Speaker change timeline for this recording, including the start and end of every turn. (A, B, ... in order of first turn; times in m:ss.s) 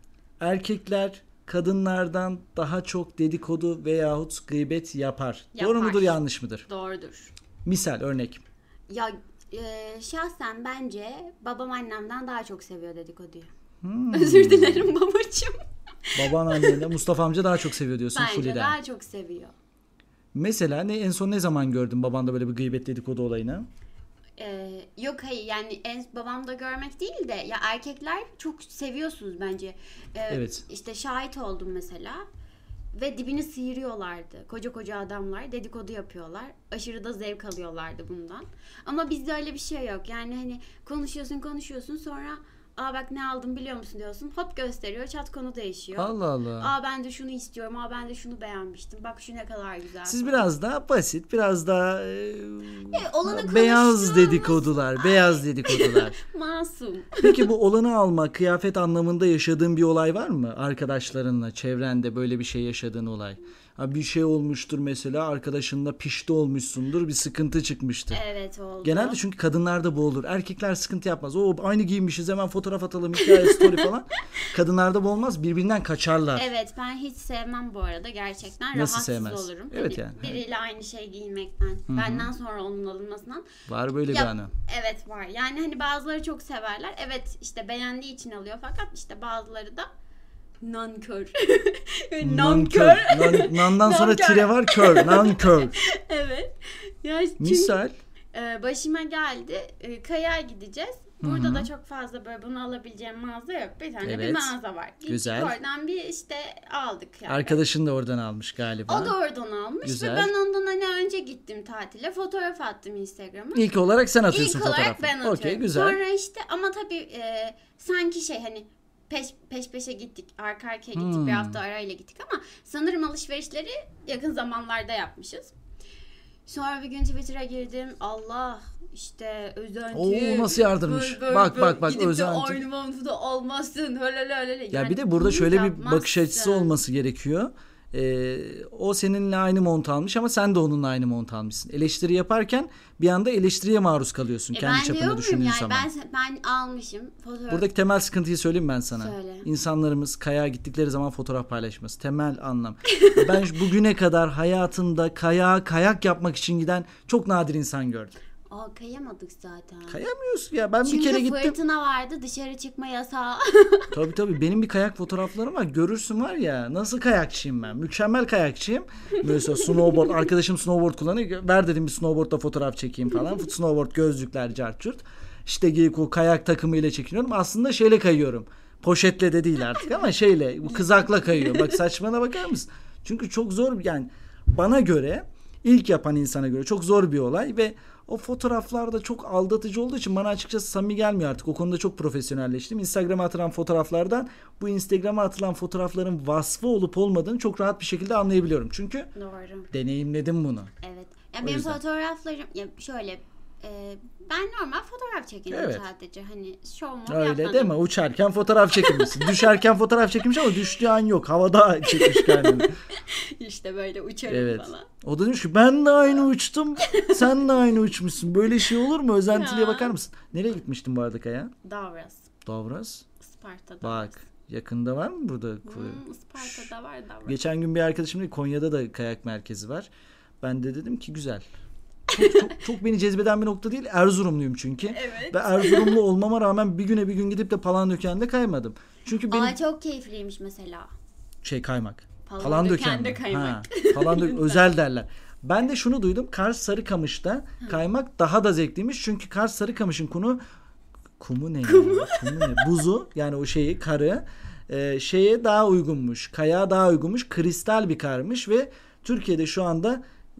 0:00.4-0:06.6 A
0:05.5-0:07.3 B
0:07.6-0:08.4 A
0:08.9-0:13.5 B
0:13.8-0:14.9 A
0:14.1-0:16.9 B
0:16.1-0:18.8 A
0:18.1-0:19.5 B
0:20.3-0:23.7 A
0:24.4-0:32.2 B
0:30.3-0:30.6 A
0:32.9-0:50.5 B
0:46.0-0:46.7 A
0:50.0-0:56.2 A
0:52.9-0:57.5 B
0:57.2-1:08.2 A
1:08.1-1:09.2 B
1:08.8-1:16.5 A
1:13.2-1:13.9 B
1:16.3-1:23.4 B
1:18.7-1:20.4 A
1:21.9-1:22.3 A
1:23.7-1:24.5 A
1:24.1-1:29.9 B
1:30.6-1:37.8 B
1:32.2-1:35.8 A
1:37.4-1:37.9 A
1:38.3-1:47.6 B
1:41.2-1:41.7 A
1:44.0-1:44.5 A
1:45.0-1:45.6 A
1:47.3-1:49.1 A
1:48.9-1:53.7 B
1:49.8-1:50.3 A
1:53.5-1:56.0 A
1:54.3-2:05.5 B
2:00.9-2:01.6 A
2:06.4-2:16.7 B
2:09.9-2:12.6 A
2:14.7-2:25.9 A
2:24.5-2:27.7 B
2:27.5-2:38.2 A
2:28.9-2:29.5 B
2:32.9-2:33.4 B
2:38.5-2:40.0 B
2:39.9-2:41.6 A
2:40.8-2:43.9 B
2:43.9-3:19.1 A
2:49.3-2:50.1 B
3:00.7-3:01.8 B
3:19.1-3:19.7 B
3:19.7-3:20.7 A
3:20.8-3:27.7 B
3:21.4-3:21.8 A
3:25.5-3:25.8 A
3:27.1-3:32.7 A
3:28.7-3:29.4 B
3:31.8-3:34.9 B
3:34.3-3:41.5 A
3:36.8-3:37.4 B
3:39.3-3:39.9 B
3:41.6-3:42.3 B
3:42.4-3:43.0 A
3:43.2-3:44.2 B
3:43.8-3:46.7 A
3:45.6-3:47.4 B
3:47.2-3:49.9 A
3:50.4-3:51.4 A
3:52.1-3:59.6 A
3:52.1-3:52.6 B
3:54.9-3:56.0 B
3:59.2-4:00.9 B
4:01.4-4:10.4 A
4:02.2-4:04.7 B
4:11.2-4:20.0 A
4:11.6-4:12.7 B